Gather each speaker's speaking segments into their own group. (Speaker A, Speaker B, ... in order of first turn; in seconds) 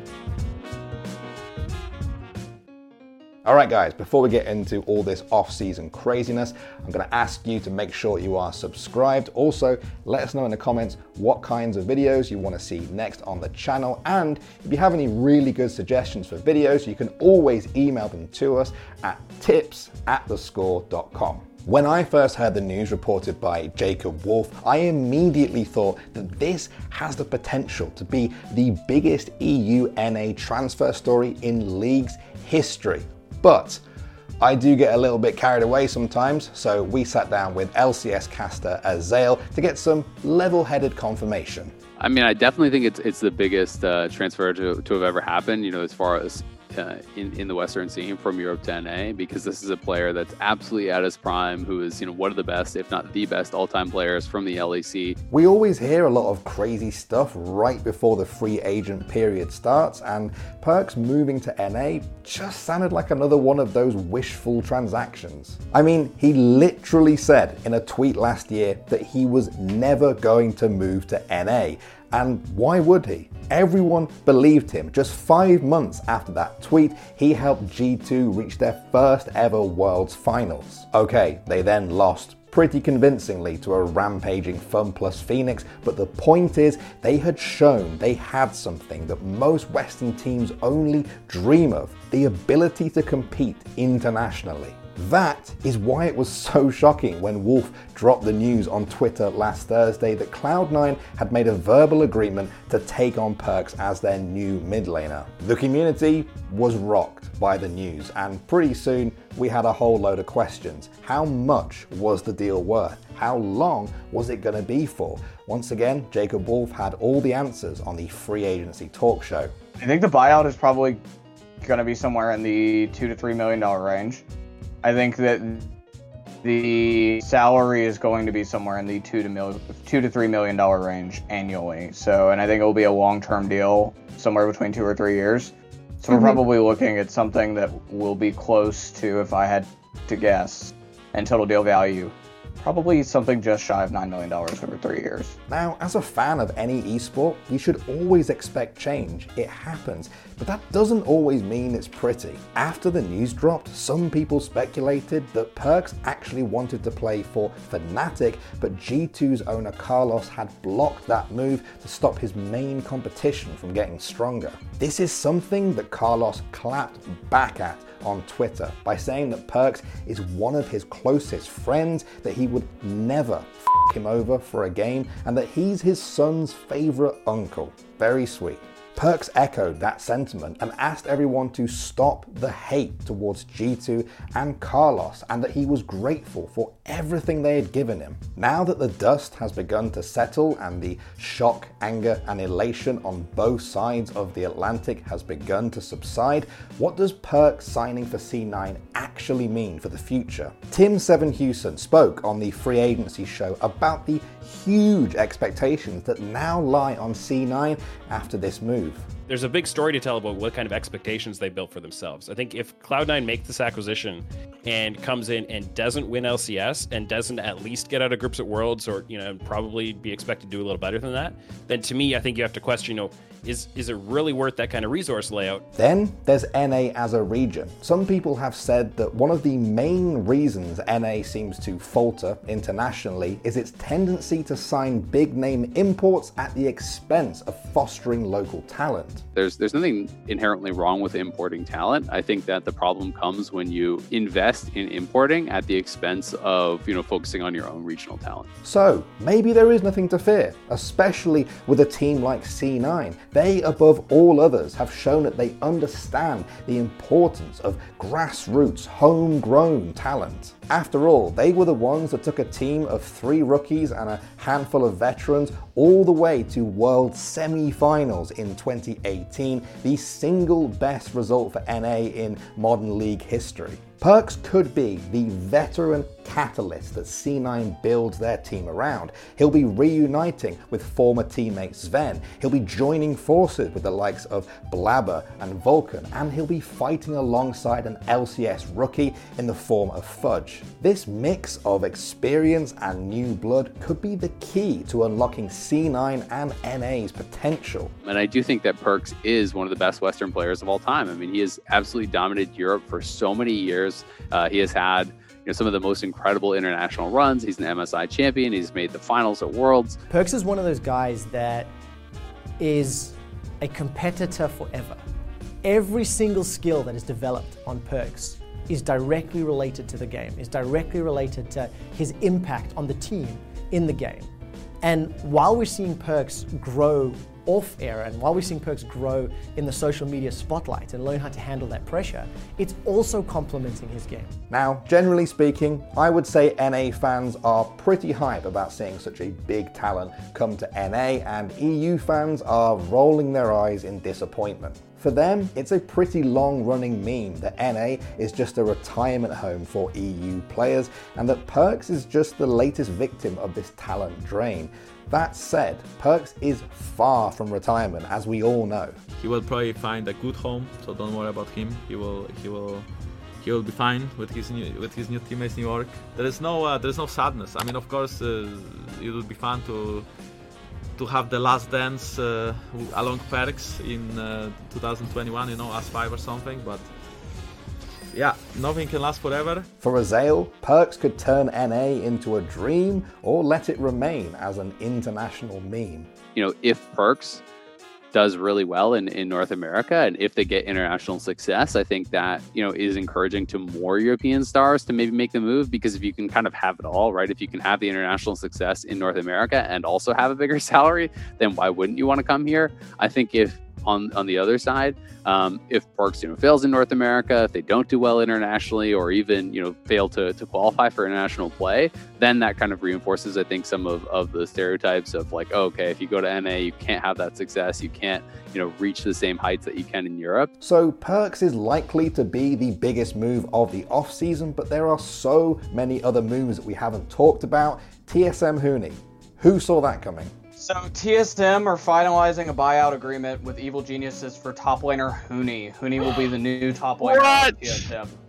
Speaker A: 3.4-33.8, 34.4-41.7, 55.3-119.5, 145.5-209.1, 225.8-239.2, 248.6-297.9, 334.5-358.9, 379.8-386.1, 420.6-430.3
Speaker B: 42.0-55.1, 239.3-248.4, 298.0-310.0, 386.3-387.4, 388.1-420.5
Speaker C: 119.8-121.0, 121.6-124.2, 124.8-125.7, 126.4-145.3, 430.6-438.2
Speaker D: 209.3-225.6
Speaker E: 310.1-311.7, 312.6-315.0, 315.6-324.2, 324.8-334.2
Speaker F: 359.2-362.9, 363.4-370.1, 371.0-376.9, 378.1-379.7